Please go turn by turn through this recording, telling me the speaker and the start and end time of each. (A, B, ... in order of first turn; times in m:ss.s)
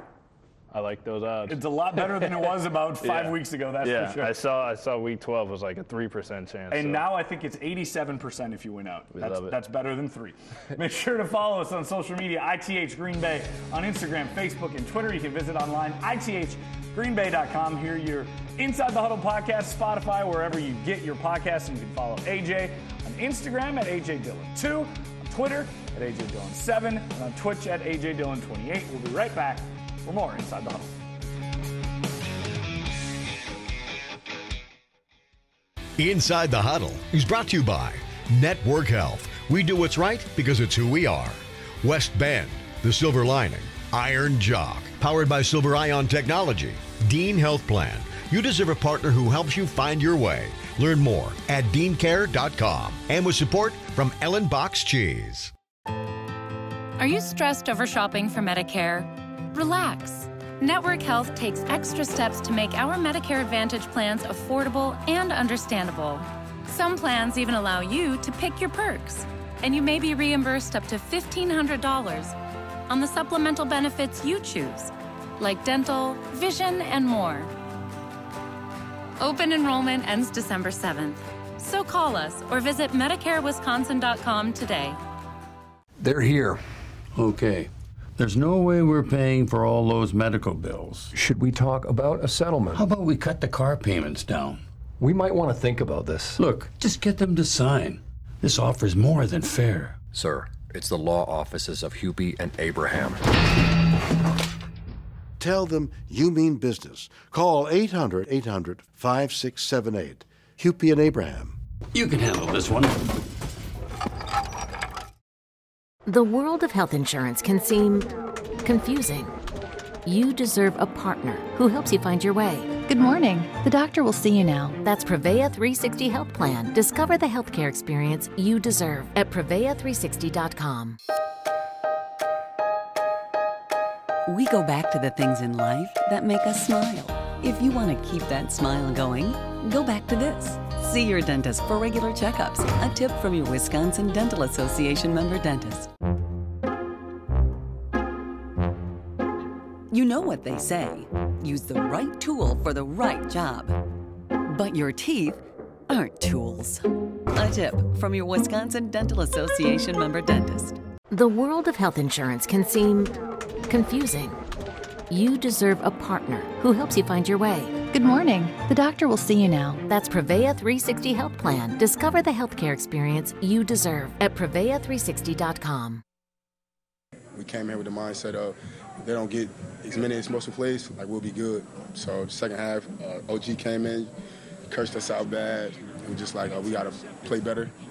0:00.7-0:07.0 A
0:01.5-0:04.4 B
0:06.7-0:30.9 B
0:09.1-0:09.6 A
0:36.0-0:55.5 C
0:57.0-1:12.4 D
1:12.9-1:17.5 D
1:19.2-1:25.0 D
1:26.0-1:26.6 E
1:27.1-1:31.1 E
1:31.1-1:32.9 F
1:32.7-1:34.6 E
1:35.0-1:36.4 F
1:36.4-1:40.0 E
1:40.1-1:43.2 G
1:45.4-1:51.5 H
1:51.9-1:53.0 E
1:56.0-1:58.1 I
1:58.6-1:59.3 I
2:00.0-2:02.7 I
2:02.9-2:04.8 J
2:04.8-2:11.0 I
2:14.2-2:25.9 K
2:29.9-2:33.8 K
2:34.5-2:36.8 K
2:37.3-2:40.8 K
2:41.1-2:43.2 I
2:43.7-2:44.4 I
2:45.1-2:47.7 I
2:47.9-2:49.8 J
2:49.9-2:56.0 I
2:57.3-3:04.1 L
3:04.7-3:07.7 L